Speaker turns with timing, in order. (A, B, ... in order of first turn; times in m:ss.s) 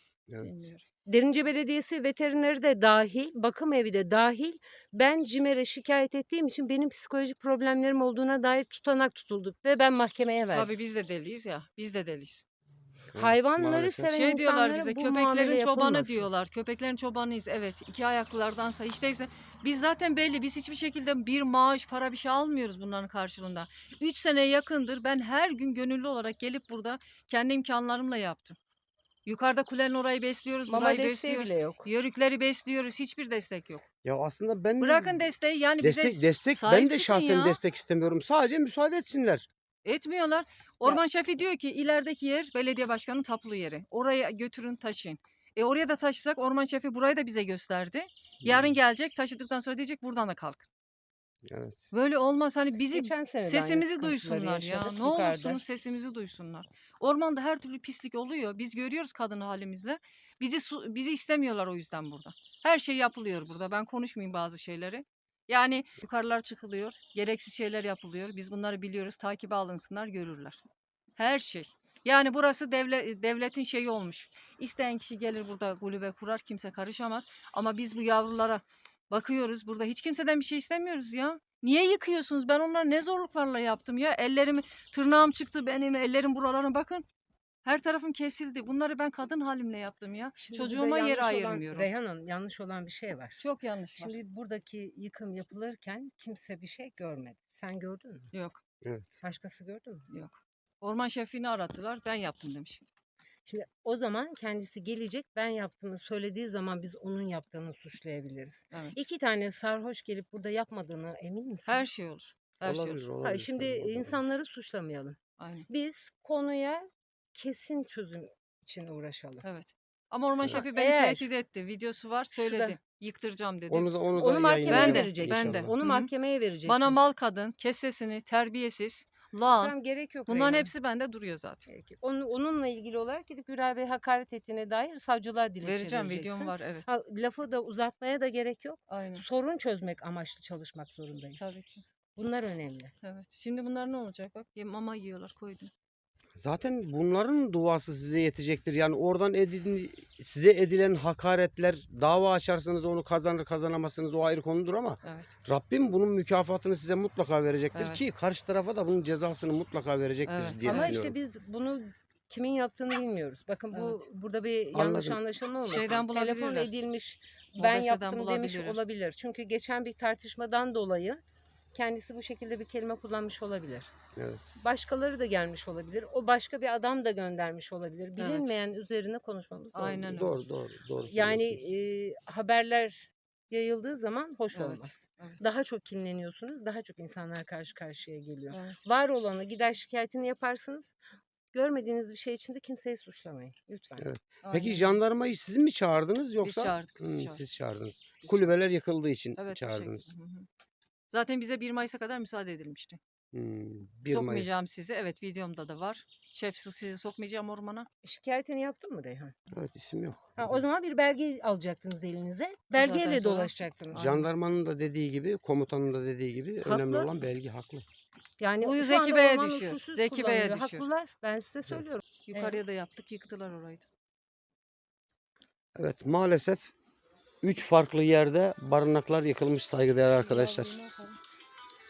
0:00.4-0:00.8 A
0:01.1-0:10.7 B
0:10.5-0:12.4 A
0:13.1-0:14.1 C
0:13.2-0:16.3 B
0:14.1-0:28.6 A
0:29.3-0:33.8 A
0:30.7-0:31.9 B
0:34.0-0:35.2 C
0:34.8-0:37.6 A
0:35.8-0:39.5 C
0:39.8-0:50.7 A
0:48.4-0:48.7 C
0:51.5-0:51.8 C
0:51.9-1:10.6 A
0:52.9-0:55.6 B
1:11.2-1:27.0 A
1:27.6-1:31.9 A
1:30.4-1:33.4 B
1:33.4-1:34.2 A
1:34.0-1:38.3 B
1:38.3-1:38.6 A
1:38.8-1:39.1 C
1:39.2-1:40.1 B
1:40.1-1:42.9 A
1:43.5-1:51.9 B
1:48.7-1:49.0 A
1:51.7-1:53.0 A
1:52.6-1:54.2 C
1:53.2-1:55.2 B
1:55.4-1:55.7 A
1:55.7-1:59.4 B
1:59.4-2:03.9 A
2:00.5-2:01.3 B
2:02.3-2:02.8 B
2:03.7-2:05.7 C
2:04.2-2:07.0 B
2:04.6-2:06.1 A
2:06.6-2:09.8 A
2:09.6-2:10.7 B
2:10.3-2:11.7 A
2:11.7-2:21.5 B
2:15.6-2:16.9 A
2:18.9-2:19.2 A
2:21.4-2:21.8 A
2:22.2-2:22.9 B
2:23.0-2:25.7 A
2:26.4-2:41.1 C
2:35.0-2:35.4 A
2:37.7-2:38.0 A
2:40.3-2:41.0 A
2:40.6-2:51.2 B
2:43.7-2:44.0 A
2:44.7-2:45.2 C
2:45.7-2:46.7 A
2:47.6-2:48.8 A
2:51.7-2:53.9 B
2:54.2-2:54.4 C
2:54.6-3:00.3 B
2:58.2-2:58.5 A
2:59.8-3:00.3 A
3:00.0-3:01.6 C
3:01.1-3:11.0 B
3:04.5-3:05.4 A
3:08.5-3:08.8 A
3:11.5-3:14.1 B
3:14.0-3:20.1 C
3:14.4-3:15.0 A
3:16.4-3:17.4 A
3:18.2-3:18.5 A
3:19.4-3:20.5 A
3:21.1-3:23.0 A
3:23.3-3:24.6 C
3:24.1-3:27.9 A
3:28.0-3:29.3 B
3:29.5-3:30.6 C
3:30.4-3:34.2 B
3:32.7-3:34.2 A
3:34.0-3:37.8 C
3:36.8-3:37.1 B
3:38.4-3:42.6 B
3:38.6-3:40.9 A
3:42.3-3:43.9 A
3:45.8-3:46.7 C
3:47.4-3:50.8 C
3:50.2-3:51.2 A